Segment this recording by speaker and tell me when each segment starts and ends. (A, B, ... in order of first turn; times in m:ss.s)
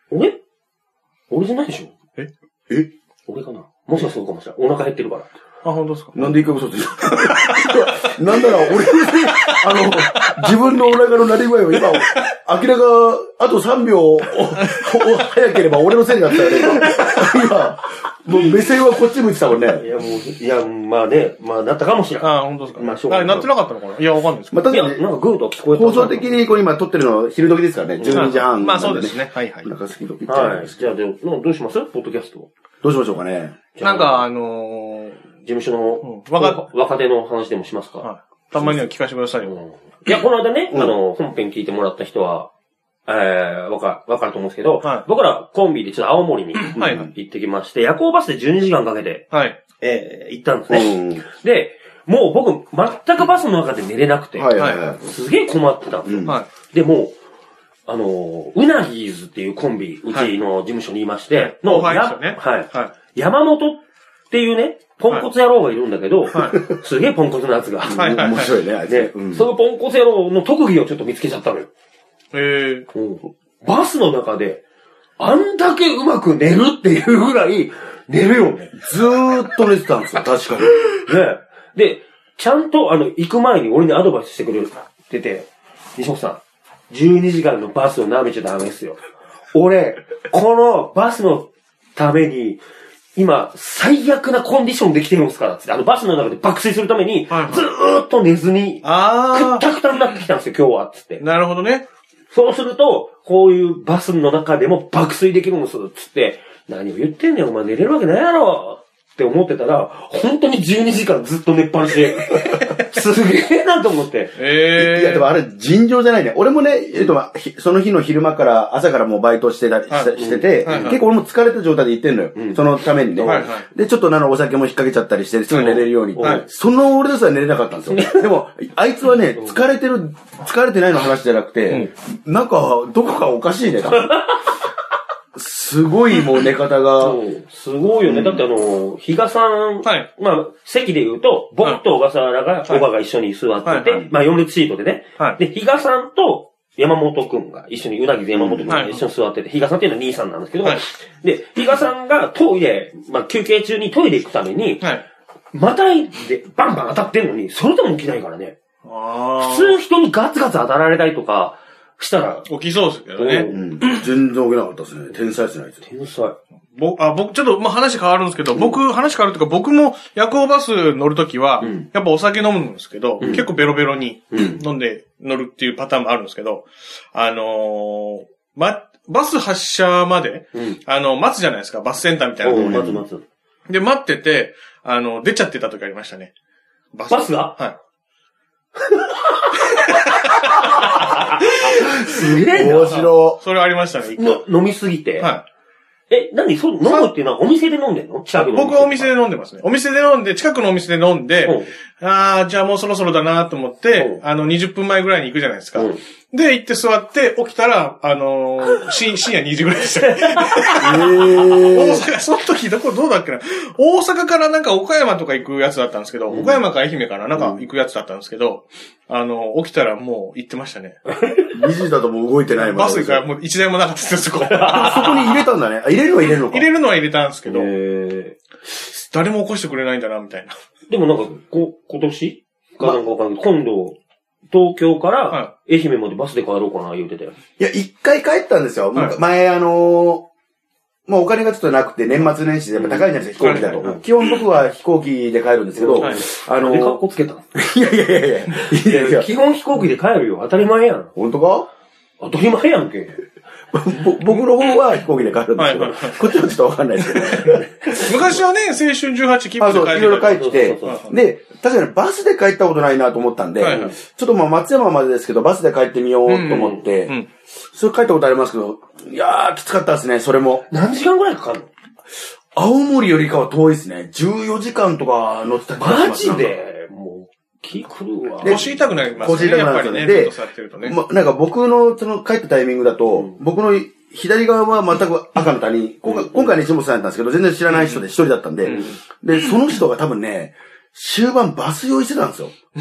0:00.1-0:00.4 A
0:01.3-0:01.9 A
0:03.3-0:05.3 A
0:05.6-0:06.3 B
0:06.1-0:19.8 C
0:07.4-0:07.8 B
0:08.7-0:10.3 B
0:14.6-0:15.1 B
0:19.8-0:23.5 A
0:22.2-0:24.6 B
0:24.5-0:25.2 C
0:24.7-0:26.4 A
0:25.7-0:31.0 C
0:28.0-0:28.4 A
0:28.1-0:29.7 B
0:30.3-0:32.5 A
0:32.8-0:33.6 C
0:33.7-0:34.2 A
0:33.8-0:35.2 B
0:35.4-0:38.9 A
0:36.0-0:36.6 B
0:38.0-0:39.5 B
0:39.4-0:42.5 A
0:43.0-0:49.3 A
0:46.7-0:47.1 B
0:46.8-0:47.1 C
0:49.3-0:49.6 B
0:49.8-0:57.2 A
0:50.7-0:51.2 C
0:54.4-0:55.0 C
0:54.6-0:54.8 B
0:56.0-0:56.4 C
0:57.8-1:11.7 A
1:01.3-1:02.9 B
1:06.4-1:06.8 C
1:07.8-1:09.5 C
1:08.0-1:08.5 B
1:12.3-1:12.9 B
1:12.9-1:14.6 A
1:15.2-1:18.8 A
1:18.7-1:21.0 C
1:21.0-1:29.0 A
1:29.5-1:32.6 A
1:33.2-1:41.2 A
1:37.3-1:37.6 B
1:38.8-1:39.7 B
1:41.2-1:41.8 B
1:42.3-1:54.3 A
1:54.4-1:55.3 B
1:54.7-2:14.1 C
1:59.9-2:01.0 B
2:00.2-2:01.0 A
2:02.3-2:02.6 A
2:03.1-2:03.4 A
2:03.2-2:03.6 B
2:05.5-2:06.4 B
2:05.6-2:06.4 A
2:07.9-2:08.3 A
2:09.3-2:09.6 A
2:13.9-2:14.5 A
2:15.3-2:17.2 C
2:17.0-2:34.9 A
2:18.0-2:18.4 C
2:19.8-2:20.1 B
2:23.6-2:24.0 B
2:28.3-2:28.9 C
2:28.7-2:29.0 B
2:35.5-2:38.6 A
2:38.8-2:39.8 B
2:39.4-2:42.5 A
2:42.5-2:44.0 B
2:43.2-2:43.7 A
2:43.5-2:45.8 C
2:45.8-2:46.4 A
2:46.7-3:02.9 B
2:51.6-2:51.9 A
2:53.2-2:53.5 A
2:54.3-2:54.6 A
3:00.5-3:00.8 A
3:02.4-3:03.2 A
3:02.5-3:03.0 C
3:03.7-3:06.3 B
3:06.9-3:07.8 B
3:07.1-3:07.6 A
3:08.8-3:09.8 A
3:09.8-3:11.4 B
3:10.6-3:13.0 A
3:12.5-3:13.4 C
3:12.8-3:14.4 B
3:14.2-3:15.3 A
3:15.2-3:15.4 B
3:16.1-3:19.1 A
3:16.8-3:17.1 B
3:18.4-3:41.0 B
3:21.4-3:21.7 A
3:23.9-3:24.2 A
3:25.7-3:26.0 A
3:30.3-3:31.8 A
3:30.8-3:32.0 C
3:36.3-3:36.6 A
3:37.4-3:37.6 A
3:41.1-3:41.5 A
3:41.5-3:43.2 C
3:42.6-3:45.2 B
3:44.5-3:45.4 A
3:44.7-3:46.7 C
3:46.4-3:47.7 B
3:47.4-3:48.4 A
3:48.9-3:50.5 B
3:50.9-3:54.0 A
3:54.5-3:57.4 A
3:57.6-4:00.3 C
4:01.1-4:07.0 C
4:02.7-4:04.0 A
4:03.4-4:03.9 B
4:05.8-4:07.6 A
4:07.5-4:09.3 C
4:08.5-4:11.1 A
4:11.1-4:11.7 C
4:12.2-4:13.2 A
4:13.7-4:18.4 C
4:15.6-4:16.4 B
4:17.1-4:21.2 B
4:19.6-4:27.1 C
4:20.3-4:21.1 A
4:23.6-4:23.9 B
4:23.7-4:23.9 A
4:26.2-4:27.3 B
4:27.7-4:30.6 C
4:30.7-4:31.7 A
4:32.5-4:36.6 C
4:35.8-4:39.6 A
4:38.4-4:41.0 B
4:38.4-4:52.5 C
4:43.1-4:43.4 A
4:46.0-4:46.5 A
4:47.7-4:48.0 B
4:48.6-4:49.0 A
4:48.6-4:49.6 B